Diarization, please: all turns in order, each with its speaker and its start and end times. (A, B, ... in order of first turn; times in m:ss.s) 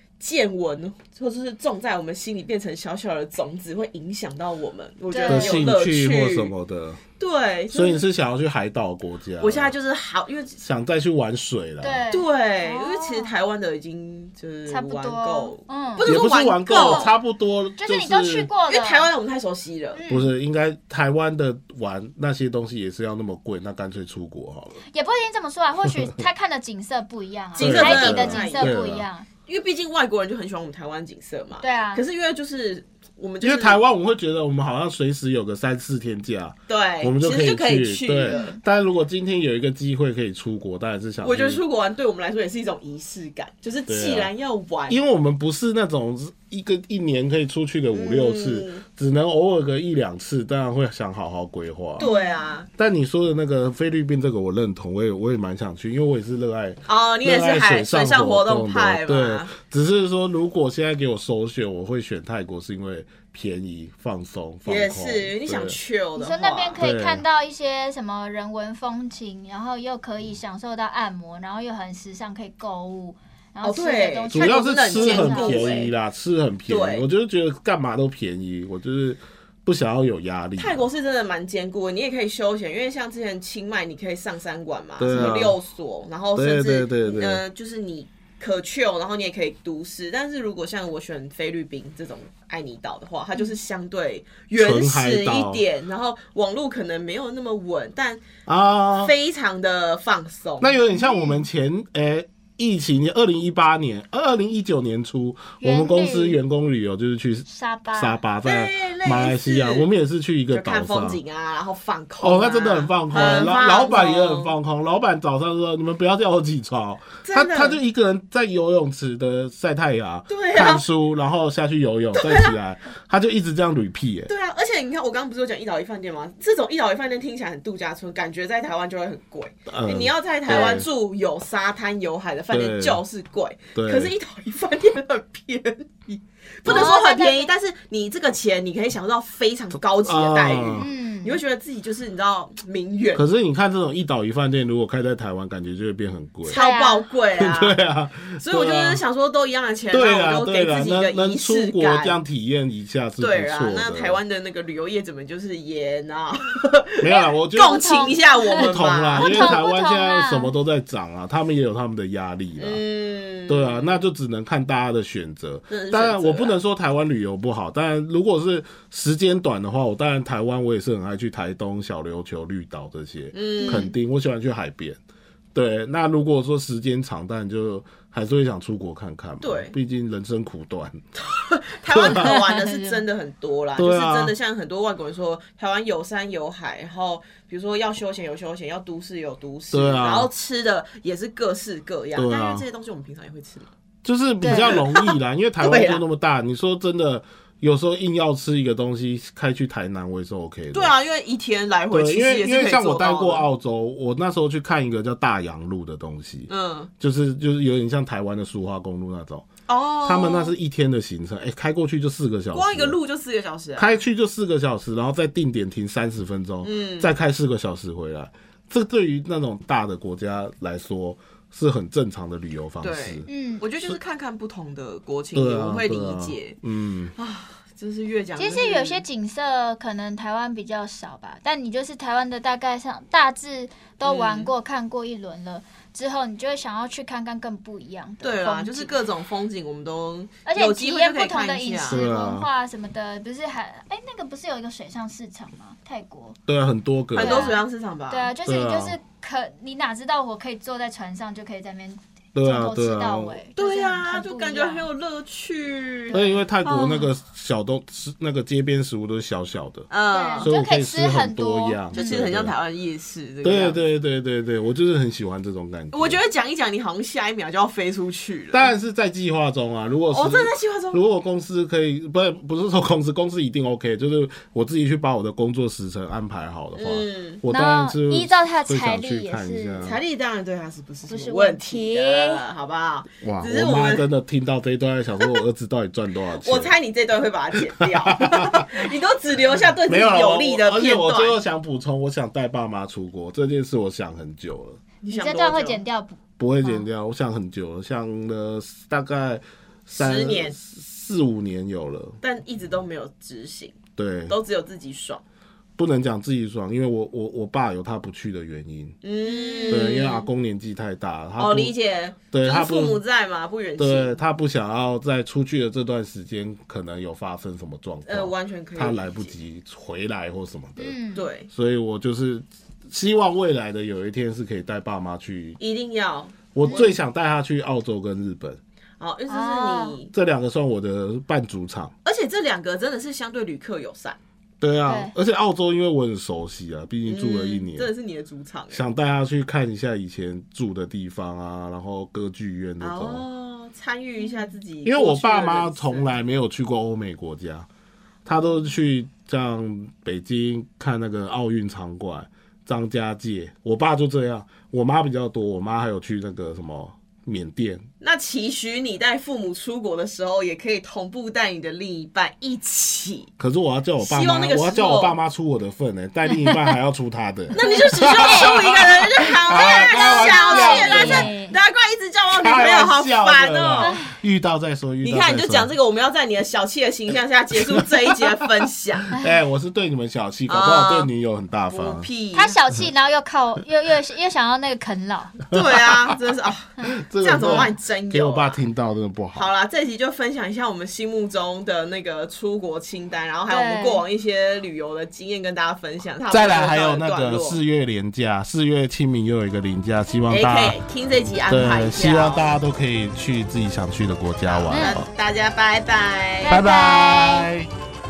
0:00.2-0:06.5 A
0:05.1-0:05.7 B
0:05.3-0:07.0 C
0:07.2-0:08.0 A
0:07.7-0:09.7 C
0:09.4-0:10.6 A
0:10.6-0:12.1 C
0:11.8-0:13.3 B
0:12.1-0:17.1 A
0:14.7-0:16.1 B
0:16.0-0:18.5 C
0:16.7-0:17.1 B
0:17.8-0:19.1 B
0:18.7-0:20.0 A
0:20.0-0:20.3 B
0:20.1-0:24.8 C
0:24.9-0:29.3 B
0:25.9-0:26.2 C
0:27.6-0:28.8 A
0:27.6-0:29.0 C
0:29.5-0:33.8 A
0:31.6-0:32.0 B
0:33.4-0:41.6 C
0:36.7-0:38.5 A
0:38.3-0:38.6 B
0:41.2-0:45.0 A
0:43.9-0:44.3 C
0:44.9-0:52.1 C
0:47.9-0:48.8 A
0:52.0-0:52.7 A
0:52.0-0:52.4 B
0:52.8-1:05.8 C
0:56.9-0:59.5 A
1:04.7-1:06.8 A
1:06.2-1:15.9 B
1:06.8-1:07.2 C
1:13.6-1:15.9 A
1:14.3-1:20.9 C
1:16.7-1:17.0 A
1:20.6-1:38.3 A
1:25.0-1:25.6 C
1:26.4-1:27.4 C
1:34.5-1:35.6 C
1:38.5-1:39.1 C
1:39.0-1:40.7 A
1:40.6-1:51.2 C
1:40.9-1:41.4 B
1:45.6-1:46.4 B
1:47.5-1:48.2 B
1:48.4-1:49.9 A
1:50.5-1:54.6 A
1:52.2-2:04.3 C
1:53.2-1:53.5 B
1:57.2-1:57.8 A
2:00.3-2:00.8 A
2:02.2-2:02.5 A
2:04.3-2:23.3 A
2:09.7-2:10.9 C
2:10.5-2:10.8 B
2:12.5-2:13.0 C
2:13.8-2:14.1 C
2:16.6-2:16.9 C
2:16.7-2:17.5 B
2:20.0-2:20.9 C
2:20.8-2:21.4 B
2:23.2-2:26.6 C
2:26.5-2:27.8 A
2:26.5-2:27.0 B
2:27.4-2:29.0 C
2:28.4-2:32.2 A
2:29.9-2:34.2 C
2:33.2-2:37.0 A
2:37.0-2:38.0 C
2:37.1-2:40.5 B
2:37.5-2:39.6 A
2:38.6-2:42.8 C
2:42.6-2:44.0 A
2:43.5-2:55.0 C
2:45.7-2:46.6 A
2:53.3-2:53.9 A
2:53.6-2:54.0 B
2:55.5-3:01.0 C
2:59.4-2:59.8 A
3:01.2-3:13.7 A
3:01.9-3:02.4 C
3:02.0-3:03.0 B
3:03.8-3:04.3 C
3:09.7-3:10.3 C
3:12.2-3:12.6 C
3:14.0-3:20.9 C
3:14.4-3:14.8 B
3:15.6-3:16.0 A
3:20.7-3:23.5 A
3:21.9-3:29.5 C
3:26.5-3:26.9 A
3:29.7-3:30.5 A
3:30.0-3:33.0 C
3:32.5-3:34.0 A
3:33.8-3:43.2 C
3:36.6-3:37.1 A
3:42.8-3:46.6 A
3:43.3-3:43.6 B
3:45.4-3:47.1 C
3:47.2-3:49.0 A
3:48.4-3:58.9 B
3:54.0-3:54.5 A
3:58.2-4:02.0 A
4:00.5-4:06.4 B
4:01.9-4:02.5 C
4:06.5-4:07.6 C
4:07.1-4:08.3 A
4:07.2-4:14.9 B
4:08.5-4:09.0 C
4:12.4-4:13.4 C
4:13.6-4:17.1 A
4:16.1-4:16.4 B
4:16.1-4:19.9 C
4:19.9-4:20.5 A
4:20.1-4:22.2 B
4:20.4-4:22.5 C
4:21.9-4:23.8 A
4:23.4-4:26.2 C
4:25.9-4:28.7 A
4:28.5-4:40.0 C
4:30.1-4:31.0 A
4:36.8-4:37.4 A
4:37.5-4:39.9 B
4:39.8-4:44.1 A
4:41.1-4:42.4 B
4:43.2-4:46.7 C
4:46.4-4:51.4 A
4:47.8-4:48.7 C
4:49.9-4:54.8 C
4:55.0-4:55.8 A
4:55.1-4:56.9 B
4:56.4-5:02.2 C
4:59.9-5:00.6 A
5:02.2-5:05.2 A
5:04.0-5:04.4 C
5:05.8-5:09.0 C
5:09.0-5:10.3 A
5:09.3-5:10.1 B
5:09.7-5:11.7 C
5:11.4-5:14.2 A
5:12.3-5:13.0 C
5:13.8-5:21.0 C
5:18.0-5:19.3 A
5:20.8-5:21.3 B
5:21.1-5:21.5 A
5:21.5-5:25.6 C
5:25.6-5:26.9 A
5:26.6-5:28.6 C
5:26.6-5:26.9 B
5:29.0-5:30.1 A
5:29.3-5:30.0 B
5:30.1-5:31.9 C
5:32.0-5:34.2 A
5:34.6-5:37.9 C
5:34.9-5:35.1 B
5:37.0-5:38.8 A
5:38.7-5:43.2 C
5:42.8-5:46.1 A
5:44.8-5:47.7 C
5:48.3-5:57.9 C
5:58.0-6:03.3 A
6:03.4-6:11.3 C
6:04.0-6:05.2 A
6:07.5-6:14.0 A
6:07.6-6:08.6 B
6:09.5-6:11.5 B
6:12.3-6:15.7 C
6:15.0-6:19.1 A
6:19.1-6:22.1 C
6:20.5-6:21.1 A
6:21.7-6:22.6 A
6:22.4-6:25.4 B
6:25.5-6:28.6 A
6:26.8-6:29.5 C
6:29.3-6:37.6 A
6:33.5-6:34.0 B
6:36.3-6:40.8 C
6:40.3-6:42.5 A
6:41.5-6:45.1 C
6:44.5-6:46.6 A
6:44.7-6:45.0 B
6:46.5-6:47.5 B
6:46.5-6:47.7 C